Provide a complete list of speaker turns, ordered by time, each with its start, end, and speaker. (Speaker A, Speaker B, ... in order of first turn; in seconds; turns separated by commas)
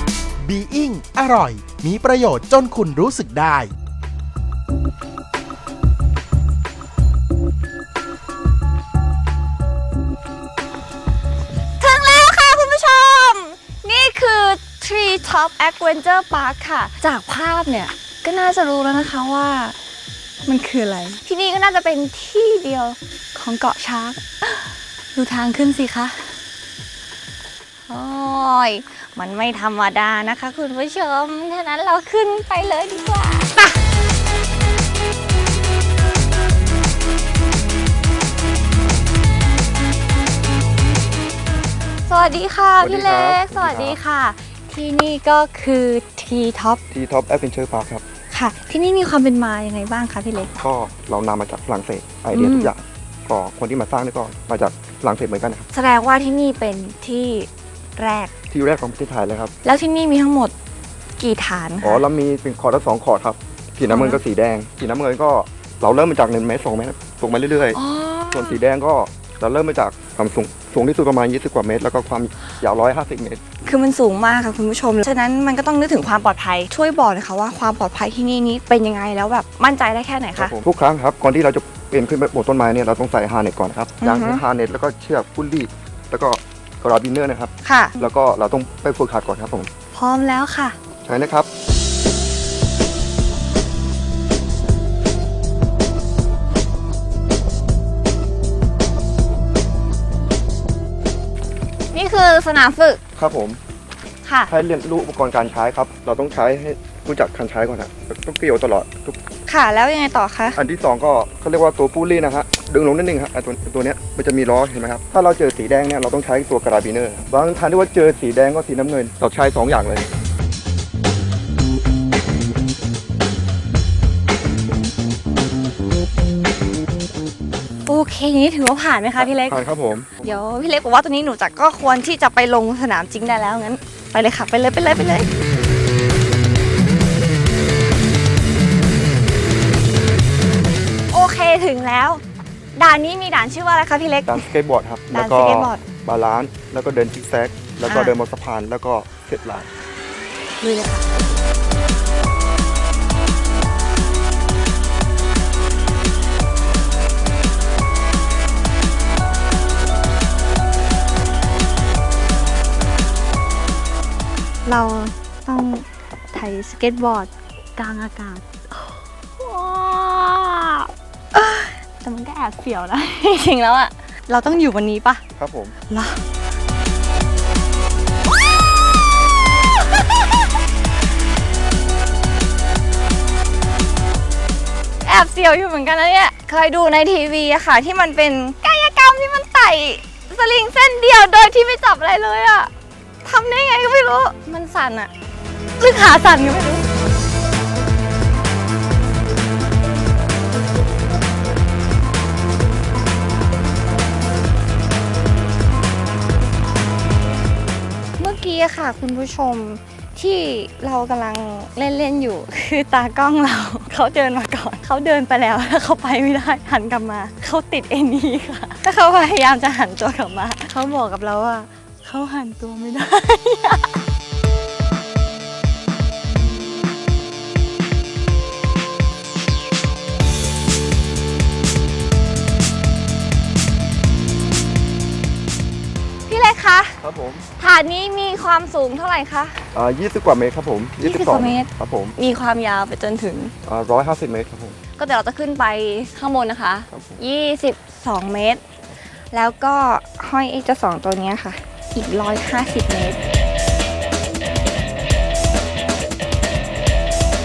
Speaker A: 0.4-3.7, Speaker B: 11.8-19.8, Speaker B: 20.5-26.4, Speaker B: 27.9-33.7, Speaker B: 42.1-46.8, Speaker C: 42.8-44.0, Speaker C: 46.9-48.0, Speaker B: 48.3-50.6, Speaker C: 50.6-55.7, Speaker B: 52.3-52.7, Speaker B: 55.7-58.3, Speaker C: 58.5-59.5, Speaker B: 59.6-60.5, Speaker B: 61.2-62.0, Speaker C: 61.8-67.8, Speaker B: 63.9-64.2, Speaker B: 67.7-68.6, Speaker C: 68.3-73.4, Speaker B: 73.7-80.5, Speaker C: 80.4-89.7, Speaker B: 84.0-84.4, Speaker B: 87.6-88.1, Speaker B: 89.9-90.8, Speaker C: 91.0-91.5, Speaker B: 101.9-103.0, Speaker C: 103.2-103.6, Speaker B: 104.2-104.5, Speaker C: 104.5-109.2, Speaker B: 109.5-110.6, Speaker C: 110.6-120.1, Speaker B: 127.9-129.7, Speaker C: 129.2-130.1, Speaker B: 130.2-135.3, Speaker B: 141.1-142.2, Speaker B: 142.8-144.4, Speaker C: 144.3-149.7, Speaker B: 145.1-145.8, Speaker B: 147.8-148.2, Speaker B: 150.6-151.1, Speaker B: 164.7-175.2, Speaker C: 175.3-175.8, Speaker B: 175.9-176.2, Speaker B: 185.0-192.7, Speaker B: 193.2-195.1, Speaker B: 195.8-196.8, Speaker B: 208.2-224.0, Speaker B: 236.3-237.0, Speaker C: 237.0-237.5, Speaker B: 237.6-239.7, Speaker C: 239.7-242.2, Speaker B: 241.0-243.5, Speaker C: 243.6-244.8, Speaker B: 245.0-248.6, Speaker C: 246.9-247.2, Speaker B: 249.3-253.2